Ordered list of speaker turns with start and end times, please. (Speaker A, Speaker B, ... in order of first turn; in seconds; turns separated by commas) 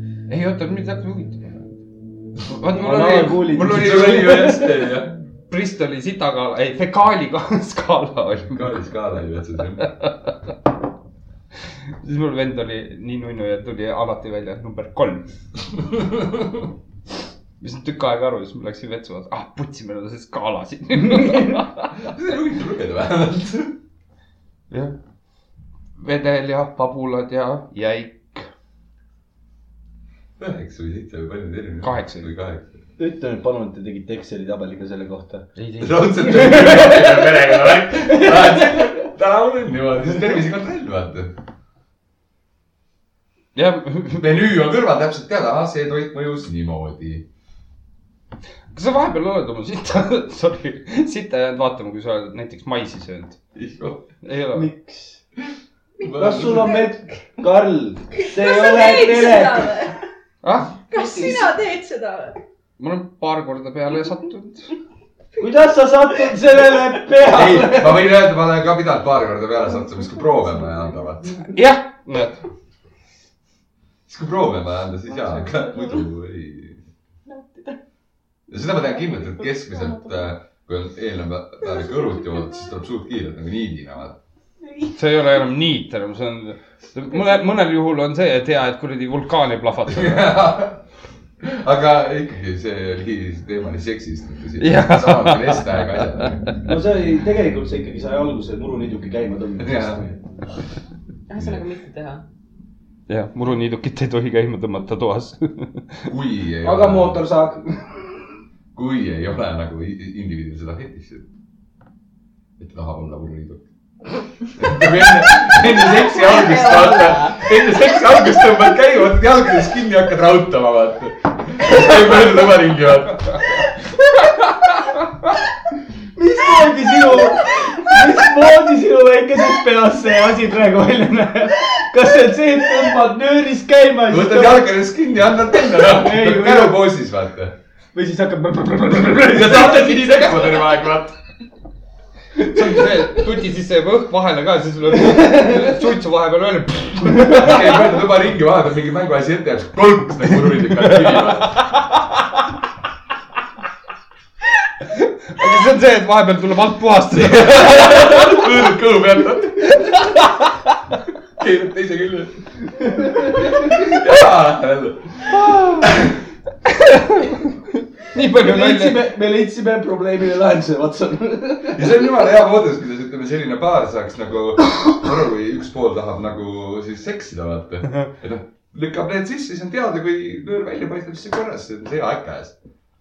Speaker A: 0.3-1.8, Speaker A: 2.4-4.2, Speaker B: 2.6-4.9, Speaker C: 3.5-5.1, Speaker A: 5.5-8.8, Speaker C: 8.5-9.9, Speaker A: 9.8-10.3, Speaker A: 12.0-15.3, Speaker A: 17.6-22.0, Speaker C: 21.9-23.8, Speaker A: 24.7-24.9, Speaker A: 26.0-28.5, Speaker C: 30.4-32.8, Speaker A: 31.8-32.3, Speaker B: 33.0-35.5, Speaker A: 35.6-36.1, Speaker C: 35.8-41.3, Speaker B: 36.2-38.9, Speaker A: 43.5-44.2, Speaker C: 44.2-47.2, Speaker A: 48.7-53.4, Speaker C: 53.5-54.1, Speaker A: 54.2-54.7, Speaker B: 54.5-55.2, Speaker C: 56.0-56.7, Speaker B: 56.1-59.9, Speaker D: 56.4-56.9, Speaker D: 58.2-60.0, Speaker A: 60.4-60.7, Speaker D: 60.9-62.4, Speaker E: 60.9-61.5, Speaker A: 62.8-64.7, Speaker B: 65.4-68.1, Speaker C: 67.2-71.4, Speaker A: 71.5-72.4, Speaker C: 74.1-76.8, Speaker E: 75.1-76.0, Speaker E: 77.3-77.8, Speaker C: 78.5-84.2, Speaker E: 78.7-80.2, Speaker A: 84.9-90.3, Speaker C: 89.9-90.8, Speaker C: 91.4-96.6, Speaker A: 94.6-96.7, Speaker B: 96.7-100.2, Speaker C: 99.6-100.0, Speaker E: 101.3-102.2, Speaker A: 103.1-106.1, Speaker C: 106.1-107.2, Speaker B: 106.6-108.2, Speaker C: 108.7-111.2, Speaker C: 112.6-113.6, Speaker C: 114.5-123.5, Speaker E: 115.7-117.5, Speaker B: 126.1-134.7, Speaker C: 134.1-137.5, Speaker B: 135.8-136.9, Speaker B: 137.9-140.2, Speaker C: 139.2-141.1, Speaker A: 142.4-147.9, Speaker B: 145.1-145.7, Speaker C: 147.2-151.6, Speaker A: 150.8-152.4, Speaker A: 154.9-158.6, Speaker C: 157.2-160.1, Speaker A: 159.7-160.5, Speaker C: 161.4-162.3, Speaker C: 162.9-166.1, Speaker A: 165.3-165.9, Speaker A: 166.7-169.0, Speaker B: 168.3-172.1, Speaker C: 171.7-182.5